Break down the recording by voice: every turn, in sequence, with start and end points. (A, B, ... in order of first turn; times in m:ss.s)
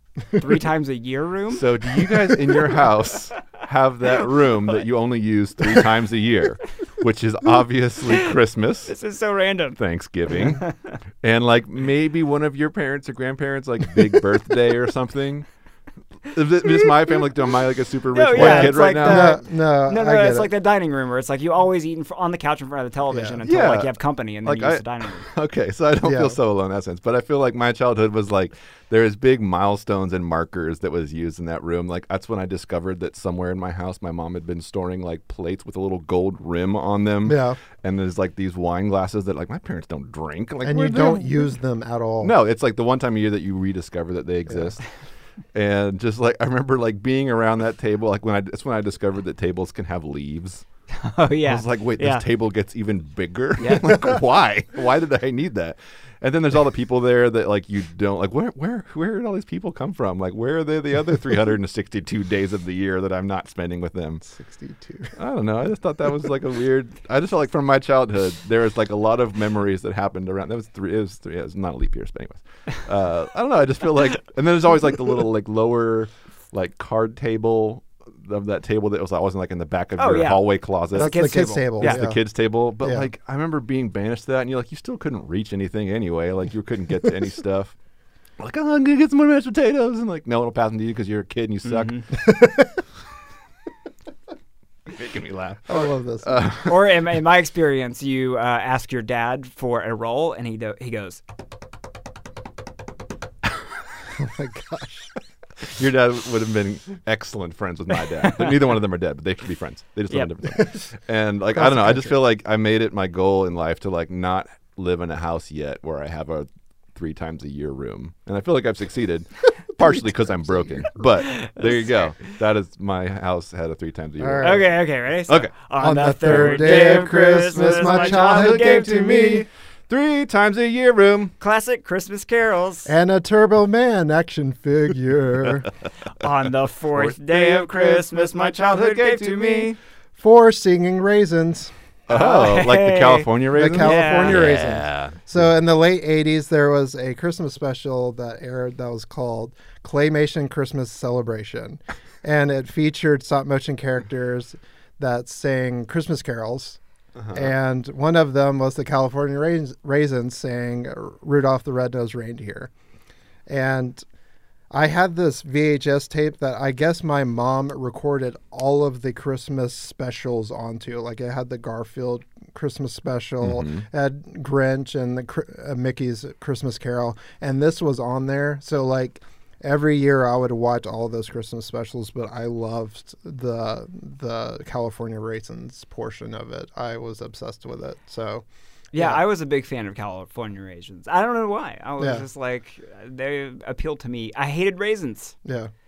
0:00.4-0:01.7 A
0:01.5-0:08.9 B
0:08.9-0:09.8 A
0:09.8-0:10.6 B
0:11.2-0:15.5 B
0:16.3-0:19.4 B
0:18.1-0:25.3 A
0:18.3-0:20.5 C
0:23.1-0:23.4 C
0:23.4-0:41.5 B
0:26.0-0:26.4 C
0:37.2-0:37.6 C
0:40.6-0:42.3 C
0:42.2-0:44.8 B
0:44.5-0:44.7 C
0:45.5-0:50.6 B
0:51.0-0:52.2 A
0:51.4-1:04.2 B
0:53.6-0:54.0 A
1:04.2-1:05.1 C
1:05.1-1:27.7 B
1:20.0-1:22.0 A
1:20.9-1:22.2 C
1:22.8-1:23.1 C
1:28.4-1:32.0 B
1:31.6-1:32.1 A
1:32.2-1:32.8 C
1:34.9-1:37.0 B
1:35.7-1:36.4 C
1:36.6-1:41.2 A
1:44.1-1:45.1 C
1:45.6-2:04.7 B
1:51.5-1:52.2 C
1:59.8-2:00.9 C
2:01.2-2:01.9 A
2:04.2-2:04.6 C
2:04.4-2:09.3 A
2:05.8-2:09.4 C
2:06.2-2:11.3 B
2:11.4-2:12.9 A
2:12.8-2:15.7 C
2:16.2-2:19.8 A
2:16.9-2:18.0 B
2:18.6-2:19.7 B
2:20.2-2:21.7 C
2:22.1-2:25.2 B
2:22.1-2:24.4 A
2:23.5-2:36.8 C
2:37.2-2:37.5 B
2:37.3-2:42.7 C
2:43.5-2:44.0 C
2:44.7-3:09.2 C
2:53.4-2:53.8 B
3:08.9-3:15.3 A
3:12.0-3:12.2 C
3:15.4-3:15.7 C